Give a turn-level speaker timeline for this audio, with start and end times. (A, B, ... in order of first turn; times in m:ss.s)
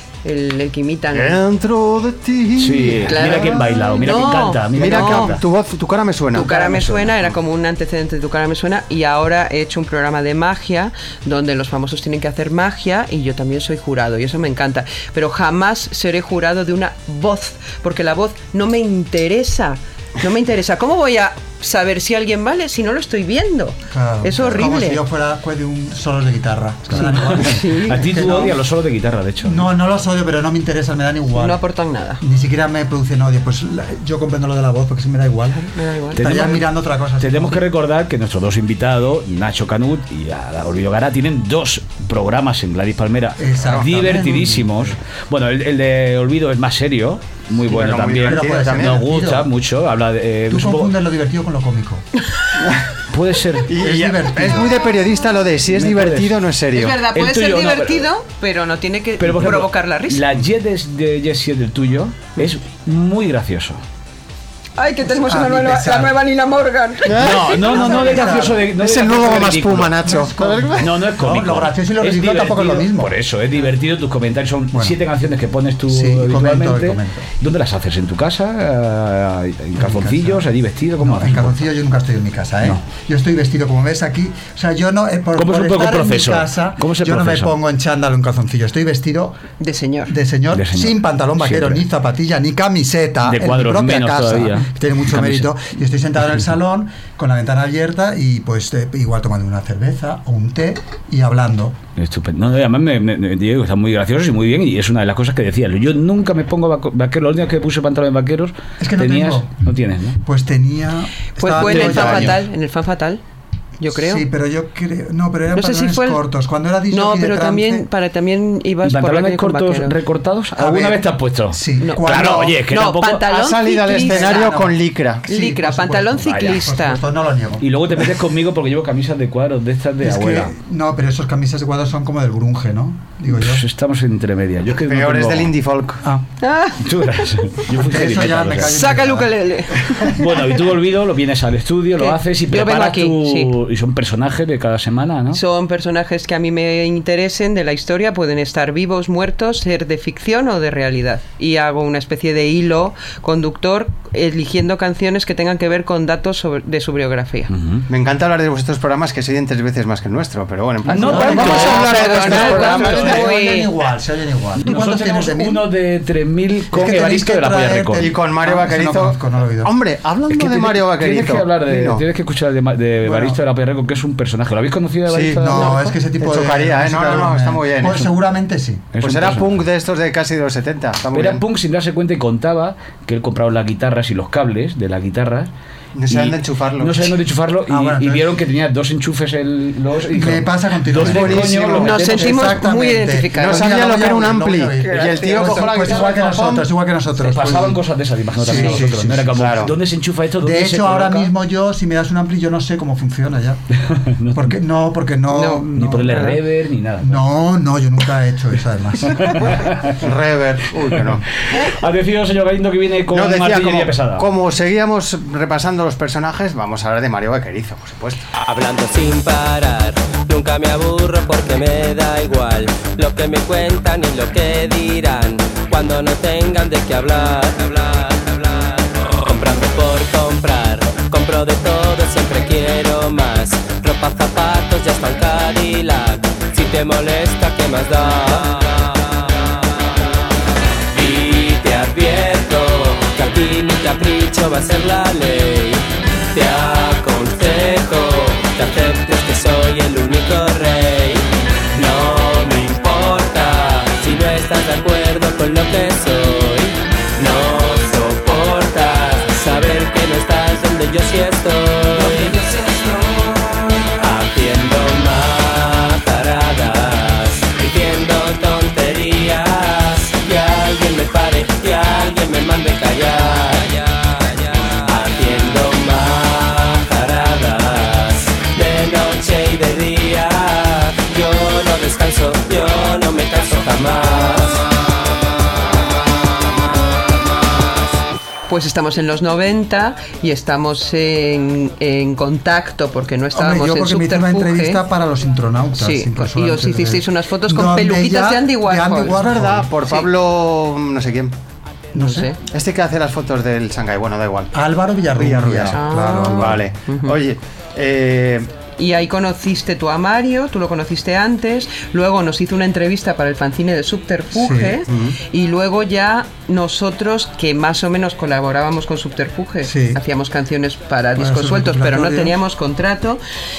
0:00.2-0:01.4 A
0:01.1-0:03.8 B
0:02.6-0:05.4 C
0:03.0-0:05.4 A
0:04.7-0:06.5 B
0:06.3-0:25.0 A
0:06.4-0:07.0 C
0:23.9-0:28.6 D
0:27.0-0:29.6 C
0:27.1-0:28.4 A
0:29.4-0:31.6 D
0:31.4-0:32.2 A
0:32.2-0:37.6 D
0:35.5-0:36.2 A
0:36.2-0:36.6 C
0:37.2-0:50.9 C
0:43.4-0:44.8 D
0:47.6-0:49.0 B
0:48.2-0:49.5 D
0:50.5-0:52.0 D
0:53.1-0:53.7 C
0:53.7-0:57.0 B
0:53.8-0:54.8 D
0:55.7-0:56.4 C
0:56.7-1:00.2 A
0:57.1-0:58.1 C
0:59.2-1:03.8 C
1:04.8-1:07.3 A
1:05.2-1:06.2 D
1:07.0-1:07.6 B
1:07.2-1:10.1 C
1:07.6-1:08.7 D
1:07.8-1:08.2 A
1:08.7-1:10.9 B
1:10.0-1:13.1 D
1:10.8-1:21.6 C
1:15.9-1:17.3 D
1:19.8-1:29.4 D
1:25.4-1:27.5 C
1:29.6-1:30.1 A
1:30.1-1:41.8 D
1:30.5-1:31.8 C
1:33.3-1:35.5 C
1:42.0-1:50.2 C
1:48.8-1:49.5 D
1:50.2-1:52.4 D
1:51.4-1:53.2 A
1:51.7-1:52.2 C
1:51.8-1:52.3 B
1:53.8-1:54.2 A
1:53.9-1:57.8 D
1:55.5-1:56.2 A
1:56.9-1:59.9 A
1:58.8-2:03.2 C
2:00.5-2:02.6 D
2:01.8-2:04.5 A
2:03.2-2:05.2 B
2:03.9-2:07.7 D
2:05.3-2:07.0 A
2:06.2-2:06.6 C
2:07.6-2:10.5 C
2:10.0-2:13.6 D
2:13.3-2:15.5 C
2:14.8-2:16.0 B
2:16.4-2:16.8 A
2:16.8-2:18.7 C
2:17.7-2:19.3 D
2:18.7-2:20.2 A
2:20.0-2:25.4 C
2:22.0-2:23.5 A
2:25.3-2:37.5 A
2:37.5-2:37.8 C
2:37.9-2:43.2 B
2:40.8-2:43.3 C
2:40.9-2:45.6 D
2:41.3-2:43.7 A
2:44.6-2:48.1 C
2:46.7-2:49.7 D
2:48.0-2:52.0 B
2:50.3-2:55.9 C
2:53.0-2:53.4 D
2:55.1-2:58.1 B
2:55.4-2:58.9 D
2:58.9-2:59.6 C
2:59.0-3:01.4 B
3:01.1-3:05.5 C
3:05.9-3:07.1 B
3:06.1-3:12.5 C
3:07.7-3:08.3 D
3:10.1-3:17.8 D
3:11.0-3:12.0 B
3:11.8-3:14.1 A
3:13.3-3:16.6 B
3:17.2-3:21.3 C
3:18.3-3:19.3 D
3:19.3-3:19.7 B
3:20.4-3:23.6 D
3:23.9-3:24.6 C
3:24.3-3:26.4 D
3:25.3-3:26.4 A
3:25.7-3:27.2 C
3:27.0-3:29.6 D
3:29.1-3:29.9 C
3:30.0-3:31.2 B
3:31.5-3:34.2 C
3:33.1-3:38.3 B
3:38.4-3:59.0 E
4:00.9-4:22.4 E
4:24.0-4:44.6 E
4:48.5-4:54.8 A
4:53.3-4:59.7 D
4:55.8-4:59.2 A
4:59.2-5:01.3 B
5:01.9-5:02.3 D
5:01.9-5:02.4 A
5:02.4-5:04.5 B
5:04.5-5:06.7 D
5:05.1-5:08.5 B
5:05.7-5:07.1 A
5:08.8-5:23.2 A
5:14.3-5:14.8 D
5:14.9-5:15.2 B
5:19.6-5:20.0 D
5:21.2-5:22.4 D